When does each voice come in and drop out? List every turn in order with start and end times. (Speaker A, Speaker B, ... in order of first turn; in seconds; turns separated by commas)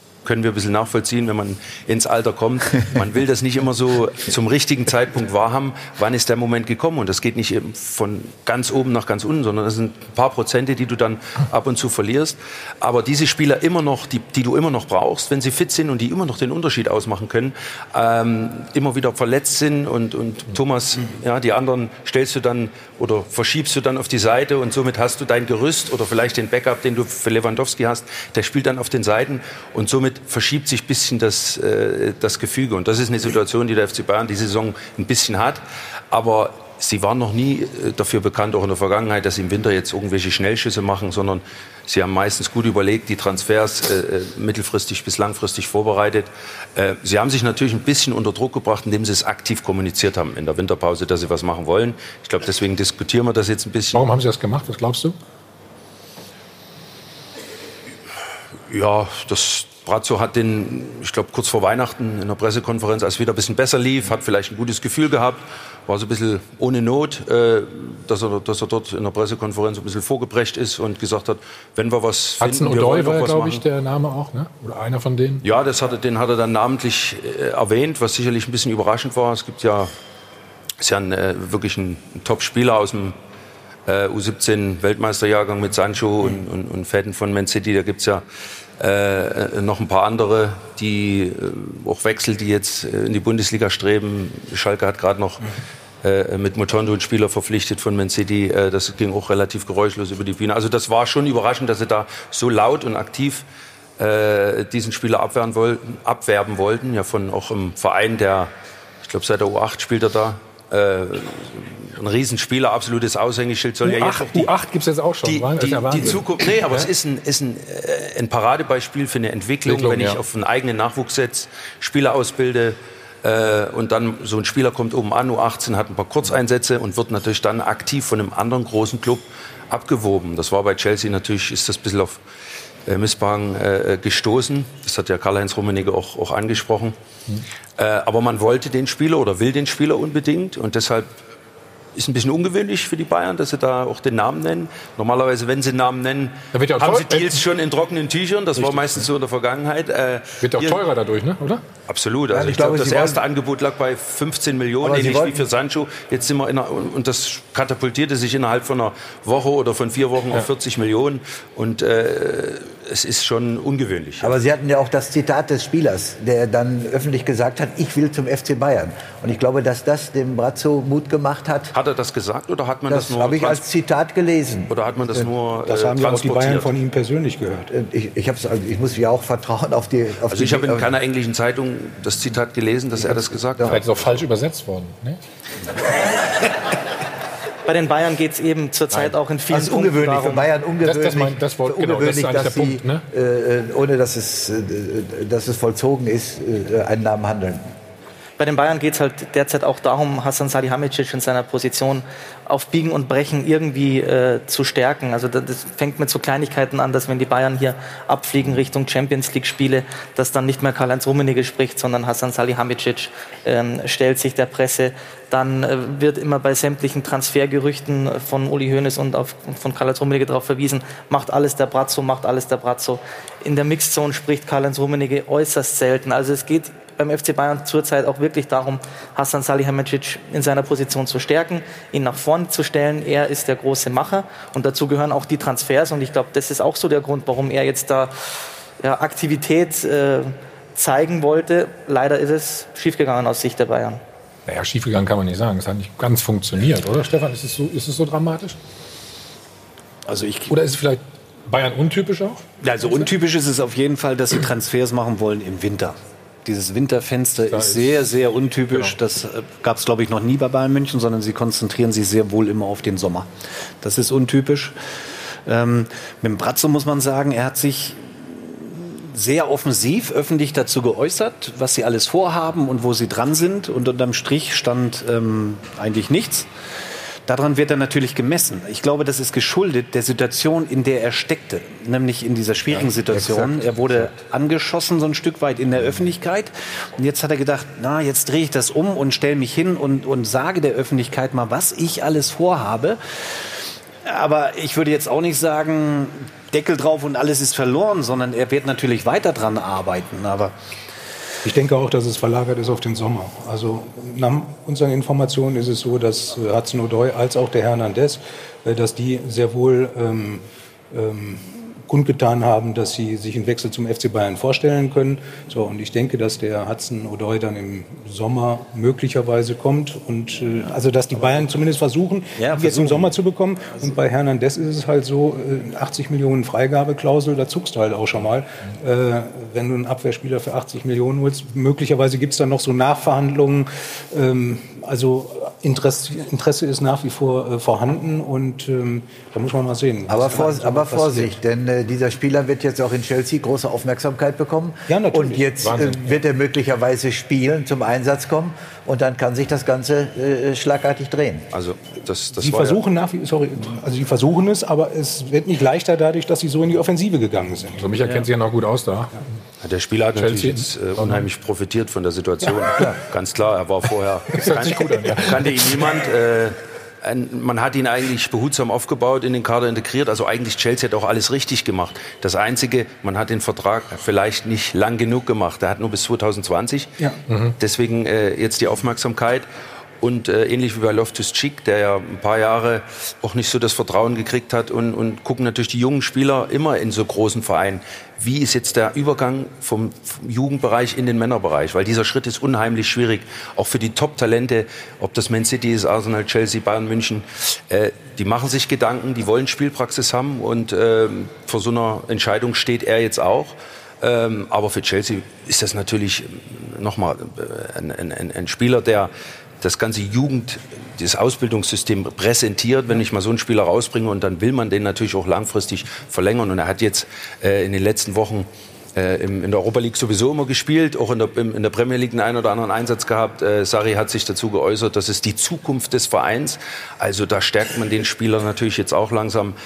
Speaker A: 0.2-54.0, Speaker B: 53.9-55.1, Speaker A: 58.7-73.6, Speaker B: 72.4-75.4, Speaker A: 75.4-79.9, Speaker A: 80.8-83.2, Speaker A: 83.9-88.2, Speaker A: 88.8-95.5, Speaker A: 96.0-103.4, Speaker A: 104.0-108.5, Speaker A: 109.0-114.5, Speaker B: 113.8-116.9, Speaker A: 115.2-132.2, Speaker B: 119.7-120.2, Speaker A: 132.9-136.9, Speaker A: 137.8-141.1, Speaker A: 141.9-150.8, Speaker B: 146.5-147.4, Speaker B: 150.4-151.6, Speaker A: 151.9-164.3, Speaker C: 152.3-153.2, Speaker C: 154.8-155.4, Speaker C: 164.2-171.7, Speaker A: 171.7-173.6, Speaker C: 172.9-175.3, Speaker A: 174.7-176.7, Speaker D: 175.7-177.7, Speaker C: 177.7-180.9, Speaker A: 180.3-183.8, Speaker C: 183.0-183.8, Speaker B: 183.6-185.2, Speaker E: 187.7-190.5, Speaker C: 189.5-197.7, Speaker B: 190.8-193.0, Speaker E: 198.4-238.1, Speaker E: 238.8-244.0, Speaker B: 244.5-248.6, Speaker F: 250.1-250.6, Speaker B: 250.5-252.4, Speaker F: 252.6-263.3, Speaker B: 257.5-258.1, Speaker B: 258.7-258.9, Speaker F: 263.8-264.7, Speaker F: 265.4-276.5, Speaker F: 277.3-293.0, Speaker C: 283.1-283.6, Speaker F: 294.0-300.5, Speaker D: 301.4-341.3, Speaker F: 322.4-323.1, Speaker C: 340.1-351.5, Speaker D: 344.9-345.9, Speaker B: 345.6-346.0, Speaker A: 351.5-352.8, Speaker D: 352.3-357.9, Speaker B: 357.8-359.2, Speaker A: 359.6-376.9, Speaker B: 360.1-361.2, Speaker B: 364.3-365.9, Speaker B: 377.3-377.6, Speaker A: 377.6-379.4, Speaker A: 380.0-429.5